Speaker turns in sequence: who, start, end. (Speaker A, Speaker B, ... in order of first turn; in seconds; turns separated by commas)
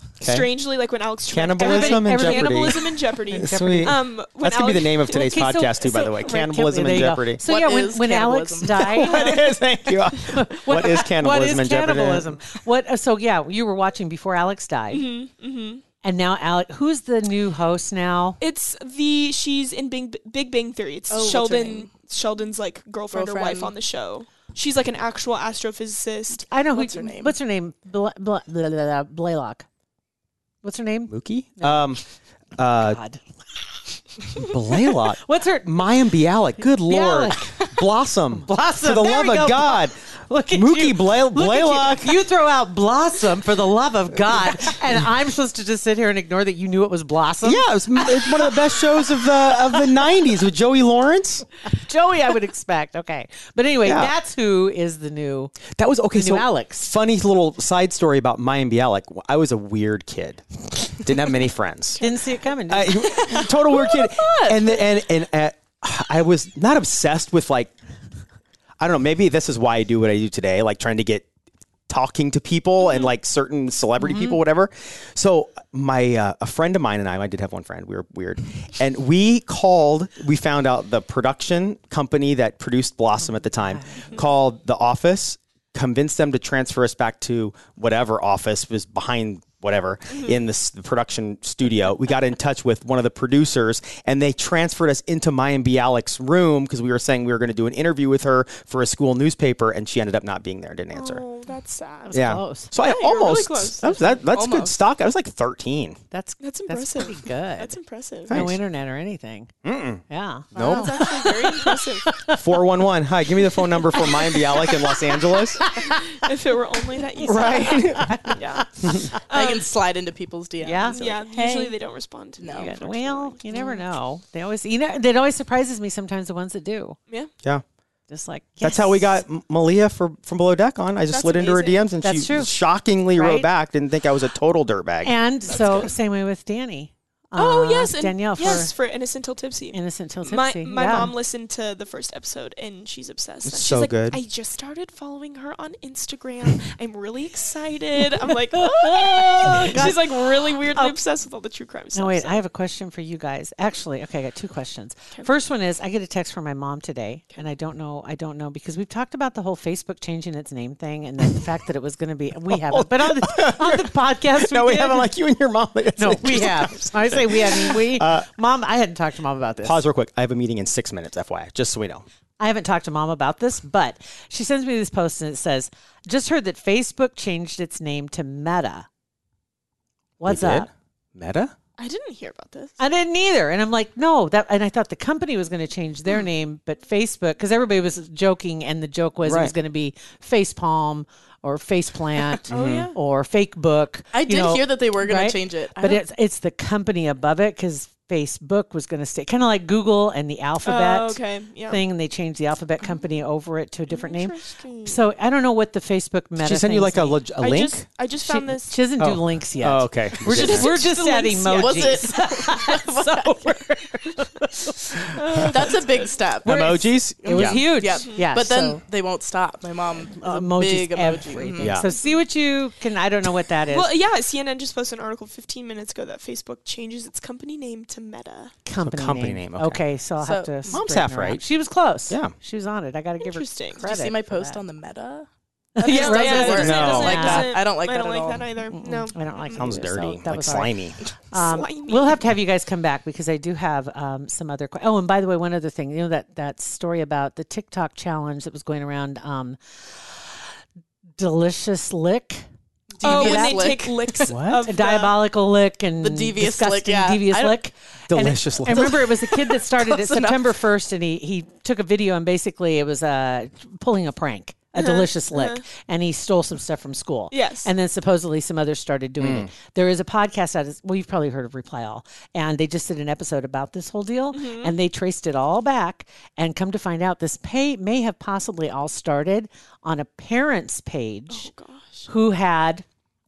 Speaker A: 0.2-6.2, Speaker B: 0.2-0.5, Speaker B: 1.3-7.4, Speaker C: 1.6-2.8, Speaker C: 3.3-4.0, Speaker C: 6.2-9.2, Speaker D: 7.4-9.2, Speaker B: 8.8-12.4, Speaker A: 9.1-9.4, Speaker C: 10.3-15.0, Speaker A: 14.9-15.8, Speaker C: 16.0-18.4, Speaker A: 18.4-26.5, Speaker D: 21.1-21.9, Speaker D: 23.1-23.7, Speaker C: 26.5-29.6, Speaker D: 26.7-27.4, Speaker C: 30.6-32.0, Speaker B: 31.1-32.0, Speaker B: 32.6-33.0, Speaker C: 32.8-33.2, Speaker B: 34.4-39.9, Speaker C: 35.2-35.7, Speaker C: 36.8-37.7, Speaker C: 38.3-47.7, Speaker B: 40.5-42.1, Speaker B: 44.5-45.0, Speaker B: 47.4-51.4, Speaker C: 51.6-55.5, Speaker B: 53.8-54.1, Speaker B: 55.7-62.0, Speaker C: 56.1-56.9, Speaker C: 62.0-63.2, Speaker B: 62.7-67.7, Speaker D: 63.0-64.8, Speaker B: 68.8-71.3, Speaker B: 71.9-101.2, Speaker C: 83.6-84.1, Speaker A: 100.9-104.2, Speaker C: 102.1-102.7, Speaker B: 102.1-106.0, Speaker D: 104.3-104.7, Speaker C: 106.1-107.8, Speaker A: 106.4-108.4, Speaker C: 108.3-109.5, Speaker B: 108.3-108.6, Speaker B: 109.6-111.1, Speaker C: 110.1-112.4, Speaker A: 110.5-112.1, Speaker B: 112.3-115.6, Speaker C: 113.5-116.2, Speaker A: 115.7-118.7, Speaker C: 117.2-119.2, Speaker B: 117.2-119.0, Speaker A: 119.3-119.7, Speaker D: 119.3-121.7, Speaker C: 120.6-121.0, Speaker A: 120.8-123.7, Speaker D: 122.4-122.7, Speaker C: 122.5-127.0, Speaker C: 128.1-129.1, Speaker B: 128.6-135.1, Speaker A: 131.1-131.8, Speaker C: 132.0-132.5, Speaker C: 133.2-133.5, Speaker C: 135.0-138.7, Speaker A: 135.4-135.9, Speaker A: 137.3-152.4, Speaker C: 139.7-141.1, Speaker B: 143.4-144.2, Speaker C: 148.6-151.0, Speaker C: 151.9-165.1, Speaker B: 162.5-168.3, Speaker C: 166.0-169.8, Speaker B: 169.6-172.1, Speaker C: 172.4-178.9, Speaker C: 180.2-180.7, Speaker B: 180.2-181.5, Speaker A: 181.8-182.7, Speaker C: 182.8-207.2, Speaker B: 189.2-189.5, Speaker B: 192.5-192.9, Speaker D: 192.5-192.9, Speaker D: 194.1-196.0, Speaker A: 200.6-201.8, Speaker A: 203.9-205.0, Speaker B: 206.4-207.8, Speaker A: 207.4-208.8, Speaker C: 208.2-215.4, Speaker B: 209.0-210.9, Speaker A: 210.4-212.1, Speaker D: 211.5-213.6, Speaker A: 215.1-216.2, Speaker D: 215.4-221.7, Speaker B: 216.4-217.7, Speaker C: 217.2-218.8, Speaker A: 217.8-218.2, Speaker C: 220.1-223.9, Speaker B: 221.6-221.9, Speaker A: 223.7-228.5, Speaker C: 228.7-234.6, Speaker B: 228.8-229.8, Speaker D: 230.2-230.8, Speaker B: 230.7-231.4, Speaker B: 232.1-232.3, Speaker A: 233.2-233.8, Speaker D: 233.8-238.5, Speaker C: 235.8-237.5, Speaker A: 235.8-239.8, Speaker B: 236.5-237.5, Speaker C: 238.7-240.8, Speaker B: 239.6-241.0, Speaker A: 241.3-242.2, Speaker C: 241.3-250.2, Speaker C: 251.2-252.5, Speaker D: 252.9-254.3, Speaker C: 253.0-253.7, Speaker A: 253.0-255.1, Speaker B: 254.3-254.6, Speaker C: 254.6-281.5, Speaker D: 256.0-257.6, Speaker B: 258.1-259.0, Speaker D: 258.7-260.5, Speaker A: 264.7-265.6, Speaker A: 267.3-267.7, Speaker B: 269.2-269.5, Speaker A: 274.3-274.7, Speaker A: 281.3-282.1, Speaker C: 282.1-282.8